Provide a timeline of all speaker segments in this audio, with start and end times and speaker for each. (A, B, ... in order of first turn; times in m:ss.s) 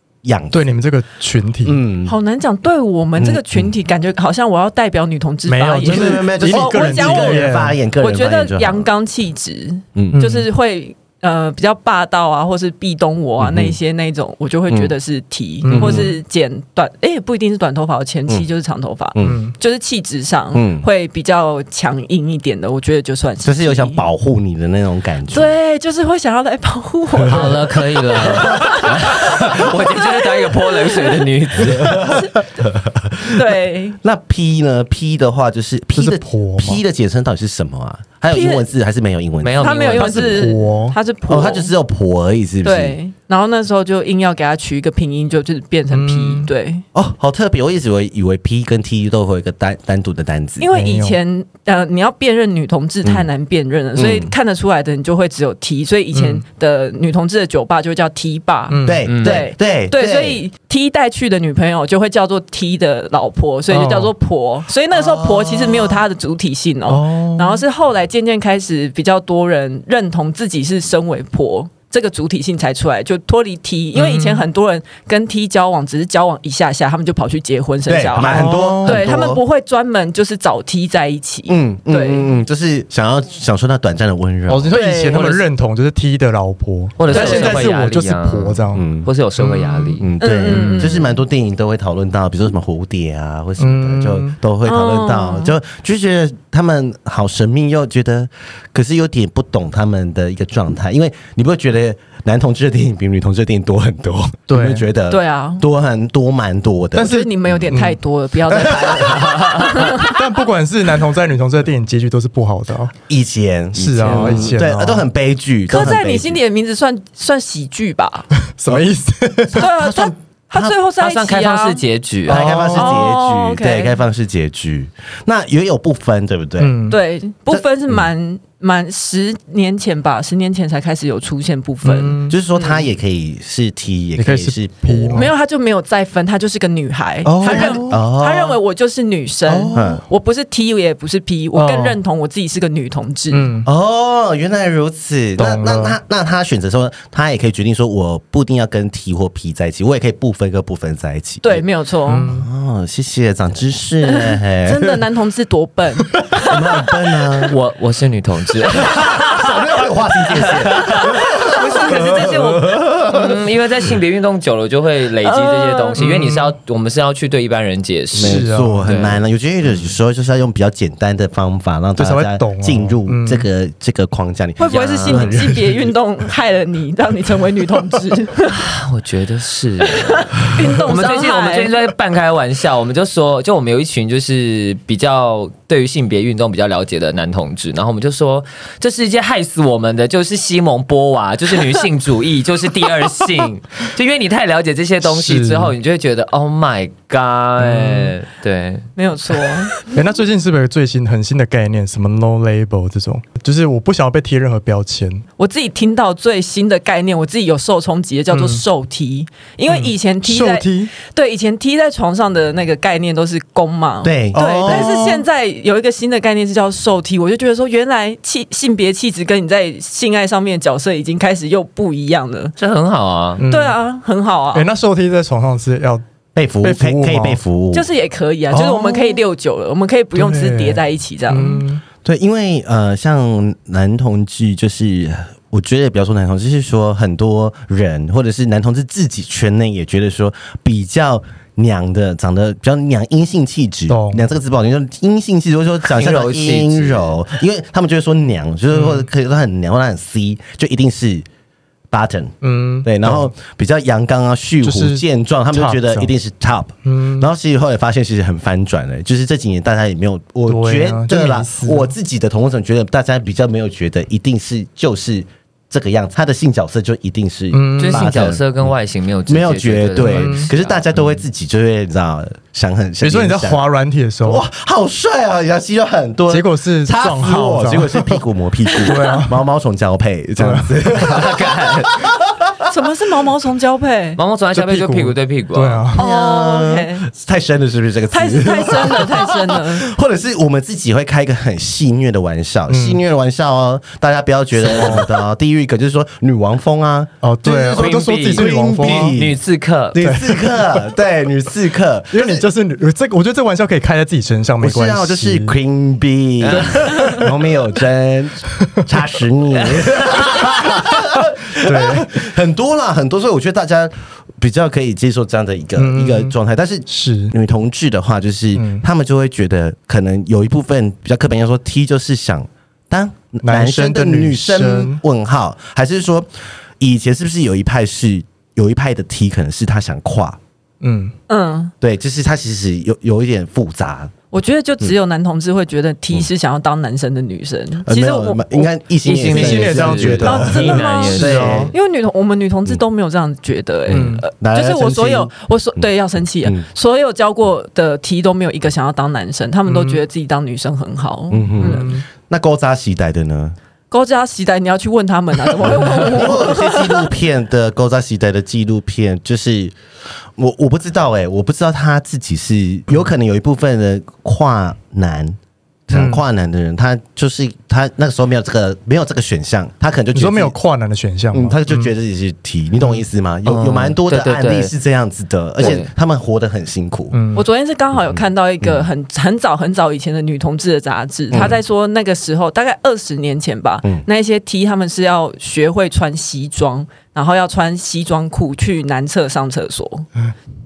0:00.2-0:00.7 A
0:00.5-0:01.8 B
0:01.6-0:02.2 A
0:02.1-0:24.0 C
0:03.2-0:03.7 A
0:05.5-0:07.8 B
0:05.8-0:08.9 A
0:10.0-0:10.2 A
0:10.1-0:10.5 B
0:13.4-0:13.8 A
0:14.7-0:14.9 A
0:15.6-0:16.1 B
0:15.7-0:16.1 A
0:19.2-0:19.5 B
0:20.5-0:20.9 A
0:23.4-0:25.5 A
0:25.3-0:32.6 C
0:27.2-0:32.1 D
0:27.3-0:27.6 A
0:28.2-0:29.4 A
0:31.6-0:40.2 A
0:33.3-0:34.0 C
0:36.0-0:36.8 B
0:38.3-0:38.7 C
0:39.4-0:40.6 D
0:39.6-0:41.7 C
0:40.2-0:41.0 B
0:41.3-0:43.0 A
0:42.6-0:46.8 C
0:45.9-0:46.5 B
0:46.9-0:50.7 A
0:50.6-1:22.3 C
0:50.7-0:51.2 B
0:54.0-0:54.3 A
0:56.1-0:56.4 B
0:58.7-0:59.1 B
0:58.8-1:00.4 A
0:59.1-0:59.5 D
1:03.7-1:04.1 B
1:04.9-1:06.0 A
1:06.9-1:07.6 B
1:14.0-1:14.4 B
1:17.9-1:19.4 A
1:18.2-1:19.0 B
1:21.5-1:24.8 A
1:24.5-1:28.9 B
1:24.7-1:25.4 C
1:27.0-1:31.0 D
1:27.1-1:27.6 A
1:27.1-1:27.6 C
1:28.8-1:29.1 A
1:29.4-1:30.0 B
1:30.0-1:47.6 A
1:30.2-1:31.2 C
1:33.6-1:34.4 B
1:34.6-1:35.6 C
1:44.5-1:44.9 B
1:45.1-1:45.6 C
1:47.0-1:48.0 B
1:47.0-1:50.3 C
1:48.5-1:50.1 A
1:50.0-1:52.9 B
1:53.1-1:56.4 A
1:53.8-1:55.1 B
1:55.7-1:58.3 C
1:58.5-1:59.7 B
1:59.5-2:00.2 A
1:59.5-2:01.8 C
2:01.0-2:02.5 D
2:02.3-2:06.8 A
2:02.3-2:03.0 B
2:02.6-2:04.0 C
2:06.6-2:07.0 B
2:06.9-2:12.9 C
2:07.5-2:08.1 A
2:11.8-2:12.4 B
2:12.3-2:15.3 A
2:14.2-2:15.3 B
2:15.1-2:23.6 C
2:17.2-2:18.0 B
2:17.4-2:18.6 A
2:19.5-2:19.9 B
2:19.7-2:20.0 A
2:21.6-2:22.0 B
2:23.3-2:23.7 B
2:23.6-2:31.6 A
2:25.4-2:26.0 B
2:31.4-2:32.3 C
2:32.1-2:32.5 B
2:32.2-2:35.0 A
2:34.1-2:36.8 C
2:36.4-2:37.6 A
2:37.5-2:49.9 D
2:38.8-2:43.4 A
2:41.0-2:42.6 C
2:45.2-2:46.0 C
2:46.0-2:46.5 B
2:48.1-2:55.9 A
2:48.2-2:48.9 B
2:52.0-2:53.4 B
2:54.6-2:58.7 C
2:54.6-2:55.4 D
2:58.5-3:18.9 D
2:59.9-3:01.8 C
3:15.0-3:15.7 B
3:17.6-3:18.1 B
3:19.0-3:19.9 C
3:19.9-3:25.2 B
3:25.4-3:42.6 C
3:28.3-3:28.6 B
3:29.7-3:30.9 B
3:34.0-3:35.0 A
3:34.3-3:35.2 B
3:42.6-3:43.4 D
3:43.4-3:43.8 B
3:43.4-3:44.7 C
3:44.5-3:46.0 B
3:46.4-3:47.9 A
3:46.6-3:47.4 B
3:47.7-3:51.6 C
3:48.5-3:49.2 B
3:50.2-3:51.8 B
3:52.0-4:11.3 A
4:03.9-4:04.3 B
4:05.8-4:07.2 D
4:08.7-4:09.1 B
4:11.9-4:28.7 A
4:12.4-4:13.3 B
4:14.6-4:16.1 B
4:16.8-4:17.3 B
4:20.5-4:21.9 B
4:27.5-4:28.2 B
4:27.8-4:31.1 D
4:29.3-4:33.6 A
4:30.0-4:30.5 B
4:33.0-4:34.4 B
4:34.2-4:42.5 A
4:36.3-4:38.2 B
4:38.8-4:39.2 C
4:38.8-4:39.4 B
4:40.4-4:40.7 B
4:41.0-4:41.9 D
4:42.7-4:44.2 C
4:44.2-4:45.9 D
4:44.5-4:46.0 B
4:46.0-4:47.1 C
4:46.0-4:59.4 A
4:48.1-4:49.9 C
4:52.7-4:53.0 B
4:54.7-4:55.1 B
4:57.2-4:59.2 B
4:57.7-5:00.0 D
4:59.9-5:02.5 A
5:00.0-5:00.6 B
5:02.1-5:05.5 B
5:04.6-5:26.3 A
5:06.4-5:07.3 D
5:06.8-5:07.2 B
5:09.6-5:10.5 D
5:11.6-5:12.1 B
5:15.8-5:16.3 B
5:16.9-5:17.3 B
5:18.6-5:18.8 B
5:23.4-5:25.0 B
5:26.8-5:30.4 A
5:30.8-5:31.2 B
5:31.3-5:31.7 C
5:31.8-5:34.1 A
5:34.3-5:38.7 C
5:37.8-5:41.7 A
5:39.0-5:41.7 D
5:39.3-5:41.7 B
5:40.2-5:51.9 C
5:43.9-5:45.9 A
5:43.9-5:44.3 B
5:49.7-5:50.0 B
5:51.3-5:53.6 A
5:51.6-5:52.0 B
5:53.9-5:57.1 C
5:55.6-5:59.8 A
6:00.4-6:05.4 A
6:05.9-6:10.6 A
6:05.9-6:06.2 B
6:10.1-6:11.9 B
6:11.3-6:17.2 A
6:13.5-6:14.7 D
6:15.6-6:15.9 D
6:17.1-6:17.5 B
6:17.4-6:30.1 C
6:18.0-6:18.8 A
6:21.3-6:21.6 A